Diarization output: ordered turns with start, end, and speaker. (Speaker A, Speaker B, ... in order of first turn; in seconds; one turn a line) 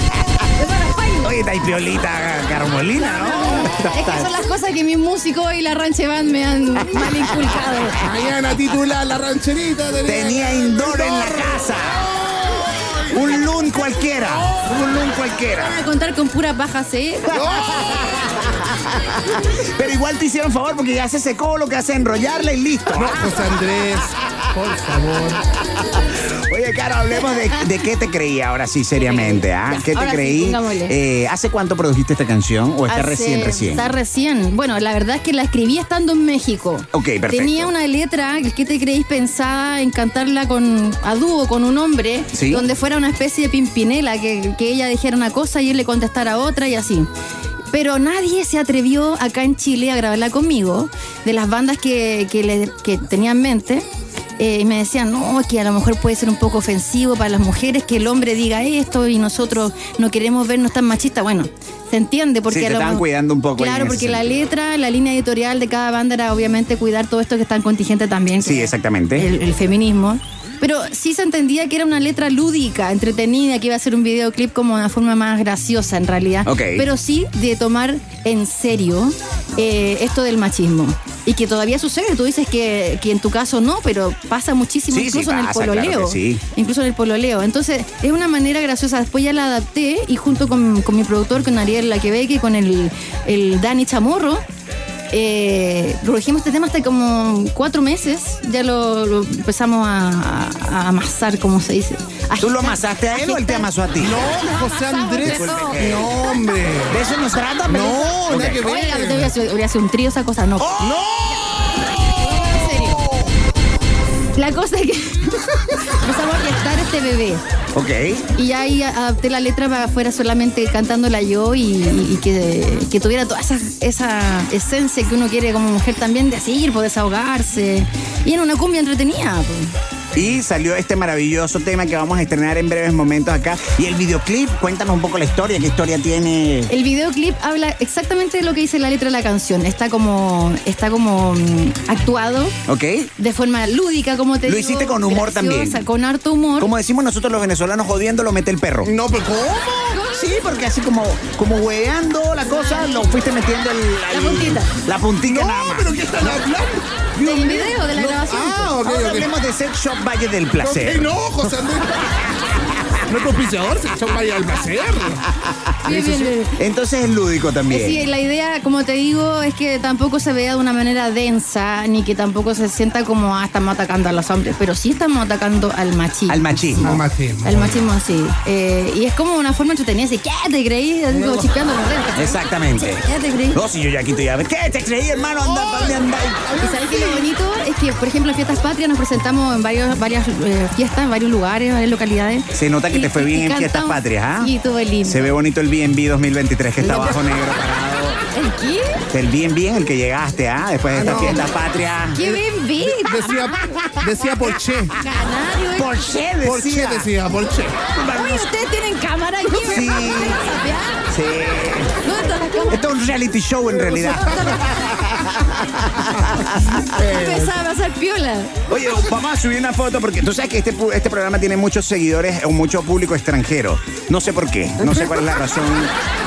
Speaker A: 0.6-1.3
Speaker B: 1.2-4.3
Speaker A: 3.0-8.0
Speaker C: 8.0-13.4
Speaker B: 10.1-12.1
Speaker B: 13.1-15.8
Speaker C: 14.2-14.7
Speaker A: 15.6-17.4
Speaker B: 17.3-23.4
Speaker C: 17.3-18.3
Speaker C: 22.9-25.4
Speaker B: 25.6-33.9
Speaker A: 27.3-27.7
Speaker A: 29.0-30.9
Speaker A: 32.9-47.1
Speaker B: 36.9-37.7
Speaker B: 42.3-42.7
Speaker A: 47.7-53.9
Speaker A: 54.4-63.0
Speaker B: 62.5-64.3
Speaker A: 63.6-94.4
Speaker B: 68.4-69.3
Speaker B: 76.5-76.9
Speaker B: 84.9-86.4
Speaker A: 95.1-106.4
Speaker B: 102.4-104.2
Speaker C: 104.0-107.0
Speaker B: 105.2-106.1
Speaker B: 106.9-108.6
Speaker C: 107.7-109.3
Speaker A: 108.6-110.8
Speaker B: 110.6-113.3
Speaker C: 110.8-111.4
Speaker A: 112.0-113.1
Speaker A: 114.3-117.4
Speaker B: 117.8-118.2
Speaker A: 118.4-129.7
Speaker B: 130.1-136.7
Speaker A: 136.7-142.6
Speaker B: 142.7-143.1
Speaker A: 143.2-146.7
Speaker B: 144.5-145.8
Speaker B: 146.6-148.9
Speaker C: 148.8-150.0
Speaker A: 149.9-150.3
Speaker B: 150.1-155.9
Speaker A: 152.5-153.1
Speaker A: 154.1-154.7
Speaker C: 155.2-159.3
Speaker A: 157.2-158.8
Speaker B: 158.8-161.1
Speaker C: 160.6-162.2
Speaker B: 162.1-163.0
Speaker C: 163.0-165.3
Speaker B: 165.4-165.7
Speaker C: 165.8-166.4
Speaker A: 165.8-166.6
Speaker B: 166.6-168.1
Speaker A: 167.7-183.6
Speaker B: 176.3-177.0
Speaker C: 176.8-177.8
Speaker C: 181.1-181.5
Speaker B: 182.2-186.4
Speaker C: 185.2-187.3
Speaker A: 186.6-195.3
Speaker B: 192.5-194.5
Speaker B: 195.1-198.2
Speaker C: 196.8-197.2
Speaker A: 198.3-199.0
Speaker B: 199.1-202.2
Speaker C: 200.9-201.5
Speaker A: 202.2-203.8
Speaker C: 202.2-205.0
Speaker A: 204.9-206.1
Speaker B: 205.8-207.1
Speaker C: 206.4-207.8
Speaker B: 207.9-208.5
Speaker A: 208.1-211.1
Speaker B: 209.6-210.5
Speaker B: 211.1-212.0
Speaker A: 212.0-212.8
Speaker B: 212.7-216.9
Speaker A: 213.9-215.0
Speaker C: 213.9-214.5
Speaker C: 216.0-217.6
Speaker A: 216.9-218.6
Speaker B: 218.7-225.9